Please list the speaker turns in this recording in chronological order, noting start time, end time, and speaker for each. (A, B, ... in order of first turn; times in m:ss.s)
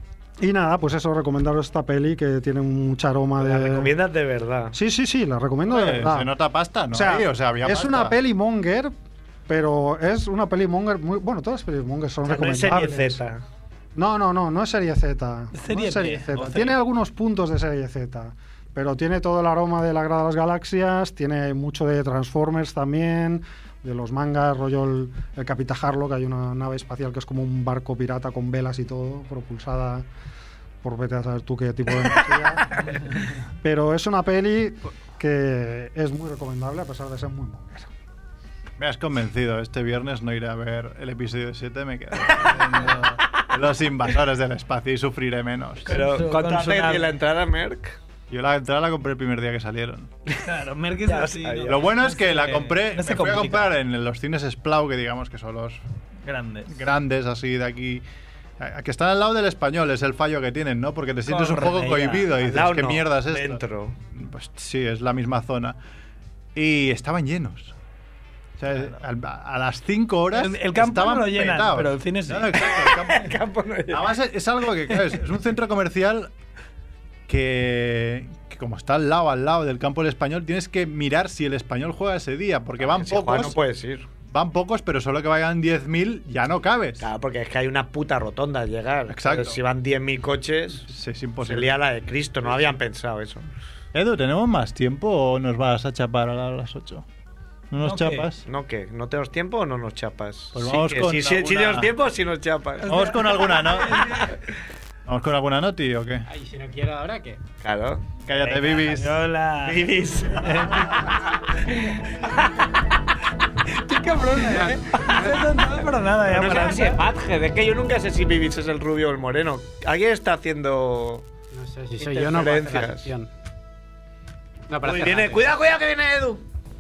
0:00.4-0:03.9 A
0:03.4-0:04.8 B
0:04.7-0:06.3 A
0:05.7-0:08.2 C
0:06.9-0:08.9 A
0:09.5-0:13.2 A
0:12.2-0:13.4 B
0:14.0-0:30.0 A
0:15.5-0:16.8 D
0:30.8-0:32.8 A
0:33.6-0:37.9 A
0:38.8-0:46.0 C
0:45.9-0:47.1 D
0:45.9-0:48.0 B
0:48.3-0:50.1 C
0:50.4-0:53.7 D
0:51.0-0:51.8 B
0:51.6-0:55.8 C
0:56.3-0:56.7 D
0:56.7-0:58.0 C
0:58.6-1:03.6 C
1:01.3-1:02.3 D
1:02.4-1:04.0 B
1:04.1-1:05.8 C
1:06.6-1:07.8 C
1:08.6-1:13.3 C
1:10.3-1:12.6 D
1:12.5-1:14.1 B
1:13.9-1:16.3 C
1:17.3-1:23.6 C
1:22.8-1:24.1 B
1:24.3-1:27.1 C
1:27.0-1:30.9 B
1:29.1-1:29.6 C
1:30.9-1:31.8 C
1:31.4-1:33.5 B
1:33.9-1:37.1 C
1:37.7-1:38.4 C
1:37.8-1:38.3 D
1:38.4-1:43.2 B
1:40.5-1:42.0 C
1:42.8-1:44.4 D
1:42.8-1:44.1 C
1:45.1-1:46.3 C
1:46.3-1:47.4 E
1:47.6-1:48.9 B
1:48.3-1:49.2 C
1:48.7-1:49.9 D
1:49.6-1:51.3 B
1:50.4-1:51.0 C
1:53.7-1:57.0 D
1:54.5-1:55.4 E
1:56.2-2:01.3 B
2:01.5-2:03.3 E
2:02.0-2:03.1 B
2:04.7-2:05.5 E
2:04.8-2:06.4 B